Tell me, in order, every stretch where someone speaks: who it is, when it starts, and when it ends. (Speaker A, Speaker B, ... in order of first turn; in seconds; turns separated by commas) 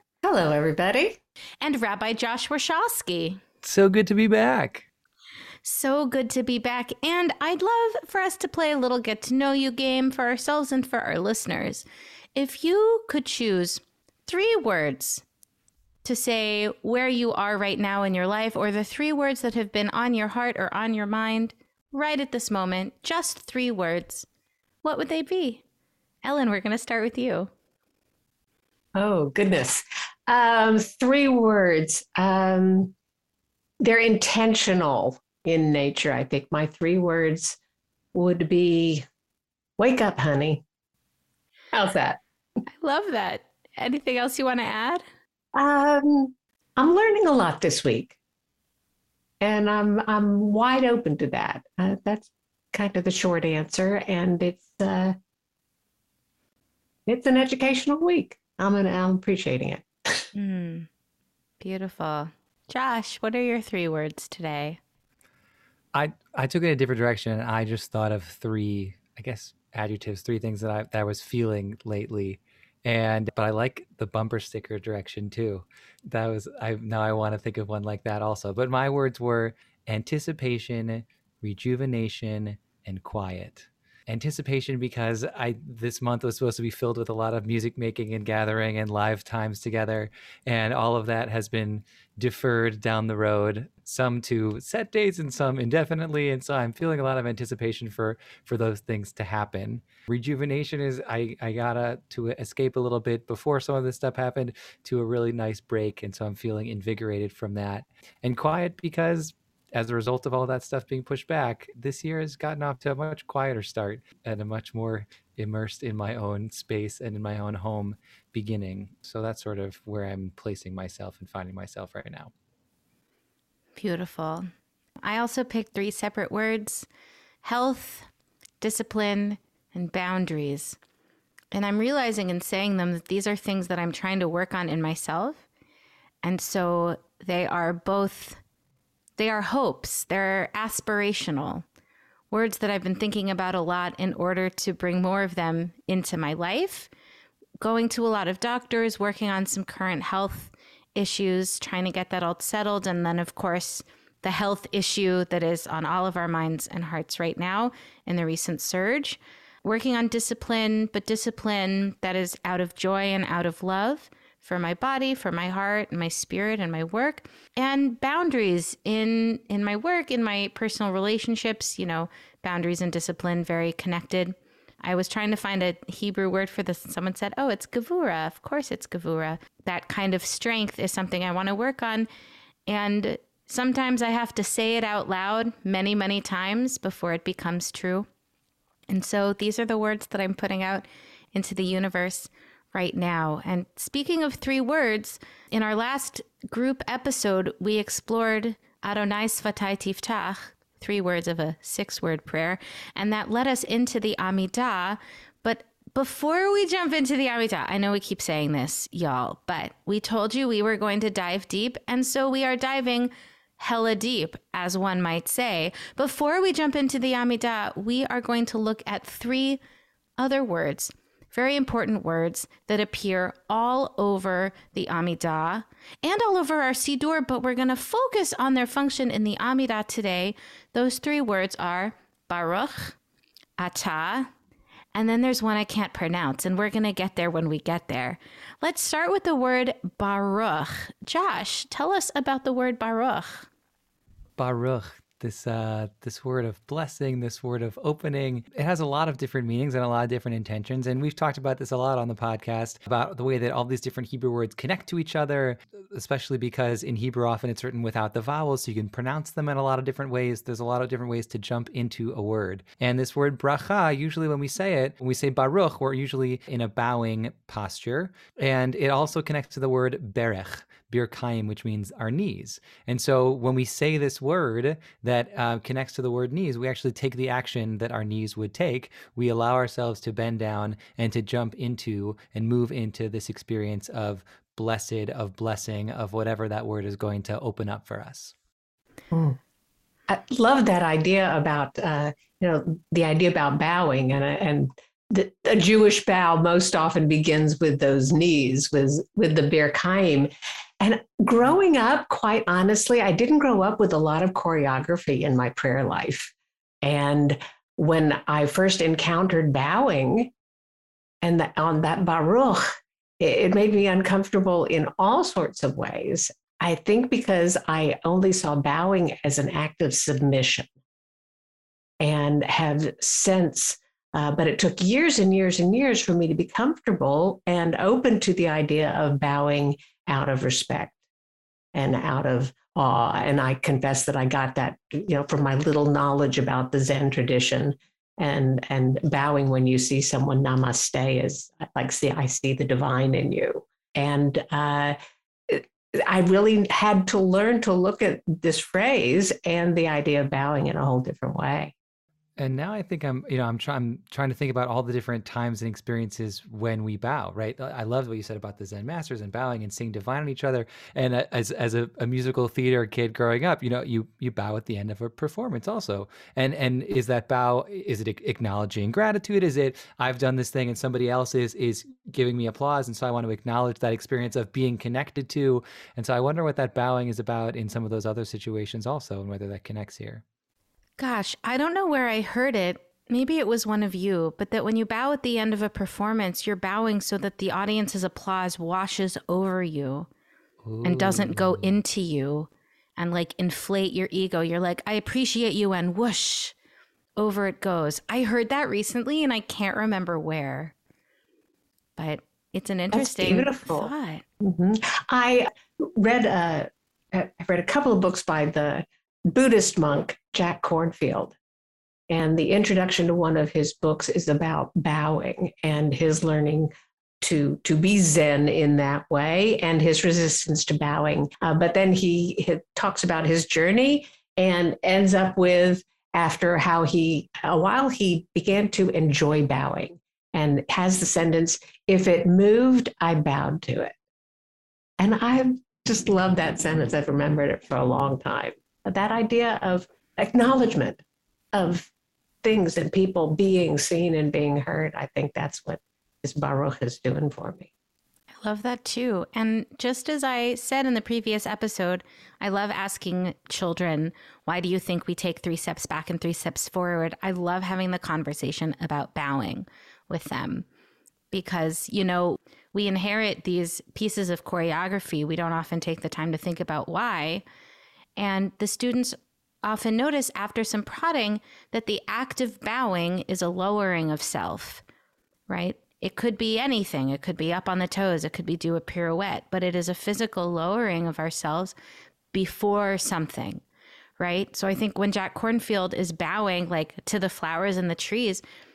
Speaker A: 0.2-1.2, Speaker B: 1.6-3.4, Speaker C: 3.6-4.8, Speaker B: 5.6-15.2, Speaker B: 16.0-24.3, Speaker B: 24.8-25.6, Speaker B: 26.2-27.5, Speaker A: 28.9-32.9, Speaker A: 33.8-37.6, Speaker A: 38.1-39.0, Speaker A: 39.8-40.6, Speaker A: 41.7-42.2, Speaker B: 42.8-45.0, Speaker A: 45.5-48.1, Speaker A: 49.4-55.1, Speaker A: 57.1-60.2, Speaker B: 60.3-60.9, Speaker B: 61.6-64.8, Speaker C: 65.9-122.3, Speaker B: 123.8-124.5, Speaker B: 125.0-126.9, Speaker B: 127.4-128.1, Speaker B: 128.6-130.8, Speaker B: 131.5-135.4, Speaker B: 136.2-138.4, Speaker B: 139.2-141.6, Speaker B: 142.3-146.9, Speaker B: 147.6-182.1, Speaker B: 182.7-188.1, Speaker B: 188.9-219.6, Speaker B: 220.2-233.0, Speaker B: 233.6-234.3, Speaker B: 234.9-243.5, Speaker C: 244.4-288.3, Speaker A: 289.1-289.4, Speaker A: 290.1-310.3, Speaker A: 311.2-312.7, Speaker A: 313.2-320.7, Speaker A: 322.0-331.0, Speaker A: 331.7-344.9, Speaker A: 345.5-351.7, Speaker C: 352.4-380.2, Speaker B: 381.0-390.1, Speaker C: 390.6-391.8, Speaker B: 390.8-396.5, Speaker B: 397.2-400.7, Speaker B: 402.0-404.2, Speaker A: 402.9-411.4, Speaker A: 412.1-433.9, Speaker A: 435.0-441.0, Speaker A: 441.5-441.9, Speaker A: 442.4-447.7, Speaker B: 448.4-460.6, Speaker B: 461.3-467.4, Speaker B: 468.2-474.8, Speaker B: 475.5-481.7, Speaker B: 482.3-483.6, Speaker B: 484.2-488.4